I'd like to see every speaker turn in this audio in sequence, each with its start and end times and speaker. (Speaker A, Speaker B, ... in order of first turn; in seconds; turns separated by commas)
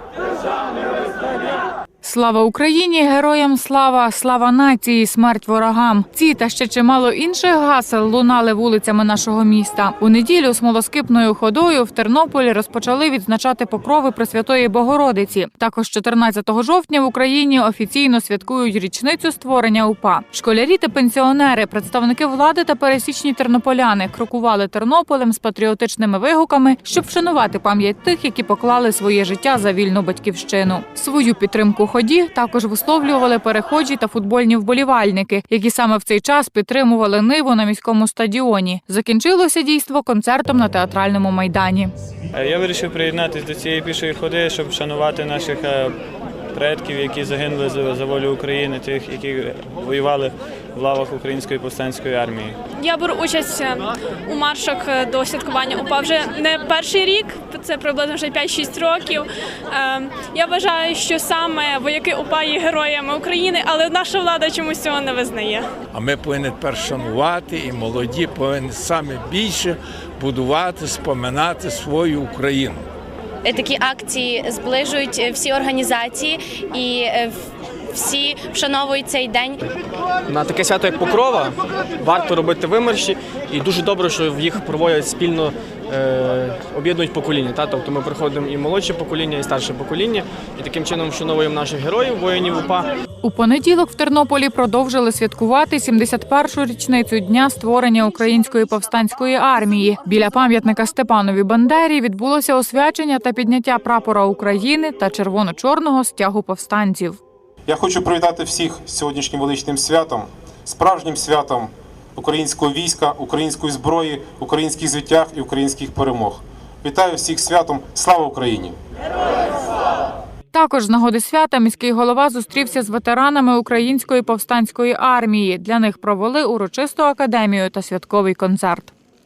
Speaker A: 2.0-41.9, Speaker B: 42.3-45.9, Speaker B: 46.5-52.5, Speaker C: 52.8-65.6, Speaker D: 65.9-72.8, Speaker E: 73.4-77.4, Speaker E: 77.9-79.6, Speaker F: 80.3-92.9, Speaker A: 93.2-107.2, Speaker G: 107.7-118.8, Speaker A: 120.5-128.9